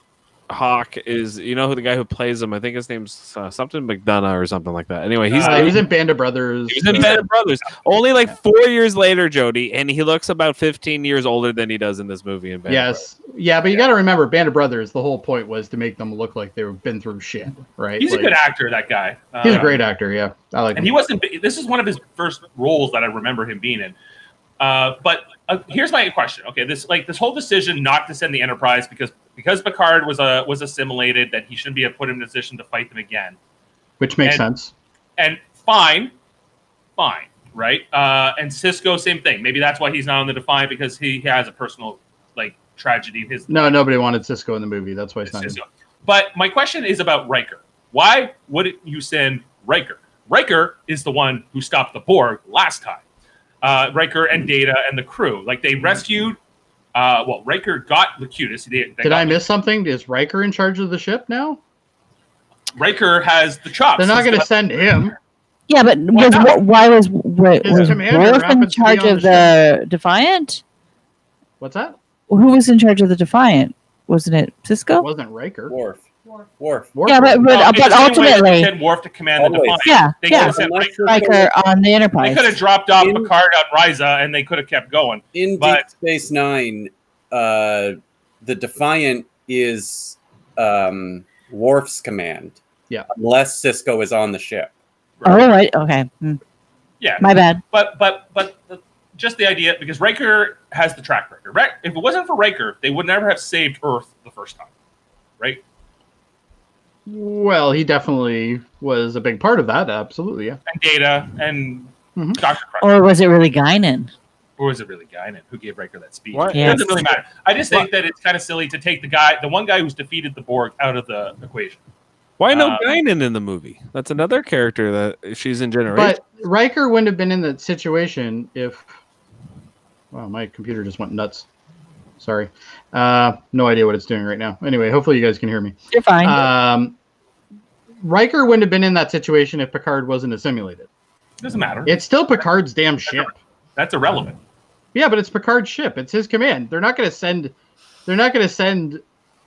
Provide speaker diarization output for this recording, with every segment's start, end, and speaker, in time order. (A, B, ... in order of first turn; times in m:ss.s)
0:00.5-0:05.8 A
0:05.3-0:05.8 B
0:05.4-0:07.2 C
0:06.7-0:13.0 A
0:06.9-0:07.2 B
0:12.7-0:18.3 C
0:18.0-0:19.8 B
0:19.4-0:20.9 C
0:20.7-0:23.9 B
0:24.6-0:33.4 B
0:34.0-0:34.7 C
0:35.2-0:36.1 B
0:37.0-0:43.7 B
0:43.5-0:45.6 C
0:45.3-0:53.0 B
0:53.6-0:56.4 B
0:56.9-0:59.4 B
0:59.0-1:01.6 C
1:02.8-1:04.5 B
1:04.0-1:05.2 C
1:05.7-1:10.6 D
1:06.1-1:06.6 B
1:07.6-1:09.5 C
1:11.6-1:12.0 C
1:12.3-1:15.1 D
1:15.0-1:15.7 C
1:15.7-1:16.0 E
1:16.6-1:16.9 E
1:16.9-1:17.4 C
1:17.0-1:18.7 D
1:17.5-1:21.2 B
1:19.4-1:21.5 E
1:19.8-1:22.6 D
1:22.2-1:25.8 B
1:23.0-1:23.3 E
1:25.3-1:32.6 E
1:33.1-1:34.7 E
1:35.2-1:35.5 B
1:35.2-1:36.4 D
1:37.0-1:44.7 B
1:37.2-1:37.6 D
1:47.0-1:50.6 C
1:50.7-1:52.9 B
1:52.8-1:54.1 D
1:54.6-2:01.8 B
1:56.3-1:57.0 A
1:56.5-1:56.9 D
2:02.4-2:06.2 A
2:02.5-2:03.0 B
2:05.9-2:08.9 C
2:10.1-2:11.4 C
2:12.2-2:16.9 C
2:15.9-2:16.5 D
2:18.0-2:20.9 C
2:21.4-2:22.0 B
2:21.8-2:23.3 C
2:23.1-2:24.4 B
2:24.9-2:27.5 C
2:28.0-2:29.0 C